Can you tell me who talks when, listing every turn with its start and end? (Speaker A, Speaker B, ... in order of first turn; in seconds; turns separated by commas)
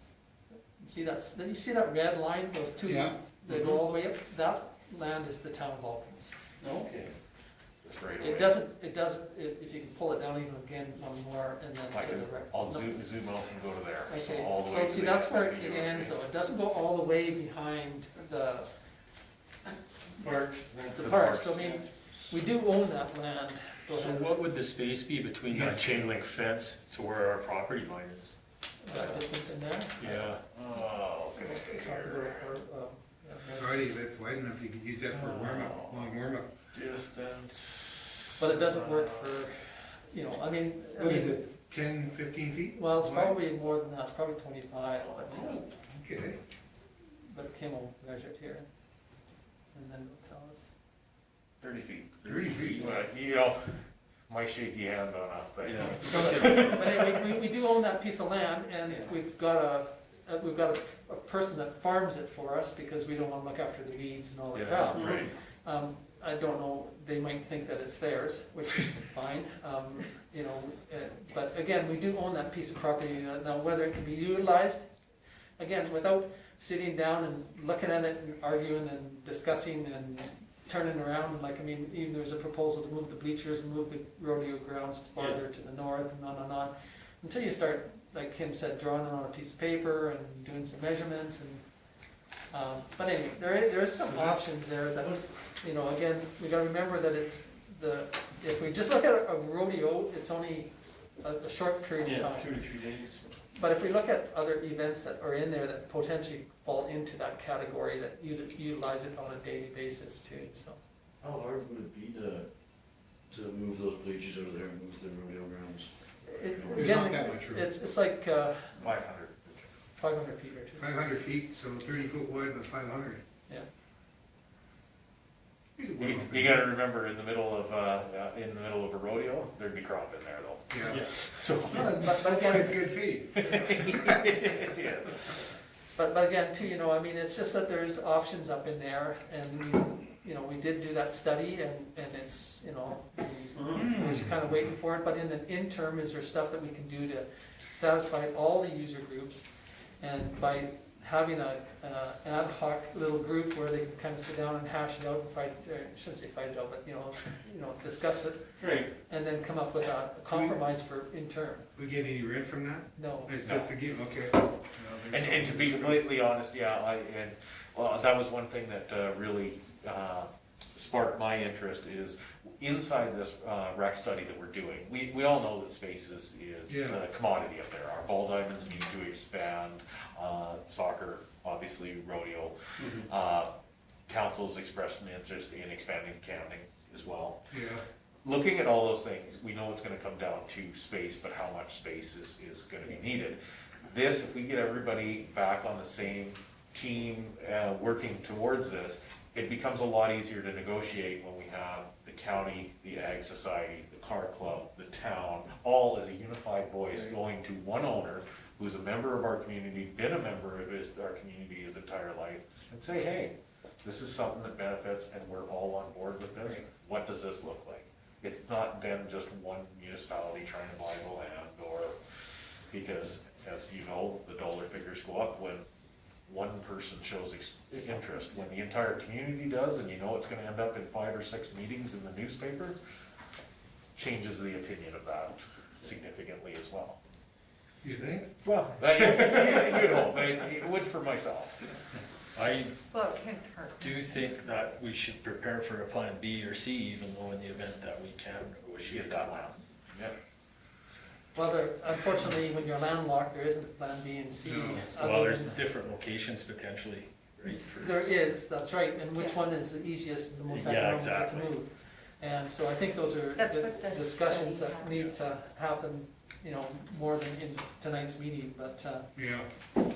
Speaker A: 0.8-6.3, Speaker B: 2.9-3.2, Speaker C: 3.5-3.8, Speaker C: 6.6-7.1, Speaker D: 7.8-8.6, Speaker A: 8.2-13.1, Speaker D: 11.9-16.1, Speaker A: 14.1-18.7, Speaker C: 20.2-21.0, Speaker D: 20.9-21.8, Speaker A: 20.9-24.2, Speaker C: 23.9-28.3, Speaker B: 25.5-26.0, Speaker A: 28.8-30.3, Speaker D: 28.9-29.2, Speaker C: 30.0-30.4, Speaker D: 30.5-32.3, Speaker A: 31.3-33.6, Speaker B: 33.6-36.5, Speaker D: 35.1-36.2, Speaker D: 36.7-39.4, Speaker A: 38.4-41.4, Speaker B: 41.0-43.4, Speaker A: 42.7-45.6, Speaker D: 45.0-45.7, Speaker B: 45.9-46.4, Speaker A: 47.3-48.7, Speaker A: 49.7-50.7, Speaker D: 51.6-56.8, Speaker B: 52.2-52.9, Speaker E: 55.7-56.6, Speaker C: 55.8-56.9, Speaker A: 56.0-74.9, Speaker E: 64.6-65.1, Speaker D: 64.9-65.3, Speaker C: 64.9-65.3, Speaker A: 75.6-91.6, Speaker A: 92.5-102.5, Speaker C: 102.0-103.2, Speaker A: 103.5-110.8, Speaker E: 111.2-112.5, Speaker E: 113.3-117.0, Speaker A: 116.3-118.7, Speaker B: 116.7-117.7, Speaker D: 118.8-119.7, Speaker A: 120.0-120.9, Speaker B: 120.8-123.2, Speaker B: 125.8-126.6, Speaker D: 126.0-132.2, Speaker B: 130.7-131.0, Speaker C: 130.8-131.1, Speaker B: 131.6-134.2, Speaker A: 132.0-132.9, Speaker D: 133.3-135.4, Speaker A: 135.9-149.4, Speaker C: 143.6-143.8, Speaker B: 143.8-144.4, Speaker A: 150.0-161.7, Speaker C: 158.6-158.9, Speaker B: 160.3-160.6, Speaker B: 161.8-166.1, Speaker A: 162.9-163.4, Speaker D: 165.1-183.5, Speaker B: 176.7-177.0, Speaker C: 182.8-183.1, Speaker D: 184.1-187.5, Speaker B: 187.5-187.8, Speaker D: 188.2-221.9, Speaker D: 222.7-225.6, Speaker D: 226.3-232.8, Speaker D: 234.0-237.0, Speaker B: 237.8-240.0, Speaker D: 238.4-241.7, Speaker C: 242.3-242.7, Speaker F: 242.9-244.0, Speaker C: 243.8-249.3, Speaker D: 248.8-250.2, Speaker A: 251.3-255.6, Speaker B: 254.4-254.8, Speaker C: 254.7-258.1, Speaker A: 257.8-269.1, Speaker F: 259.1-259.5, Speaker C: 260.5-261.5, Speaker F: 263.4-265.1, Speaker B: 269.2-269.5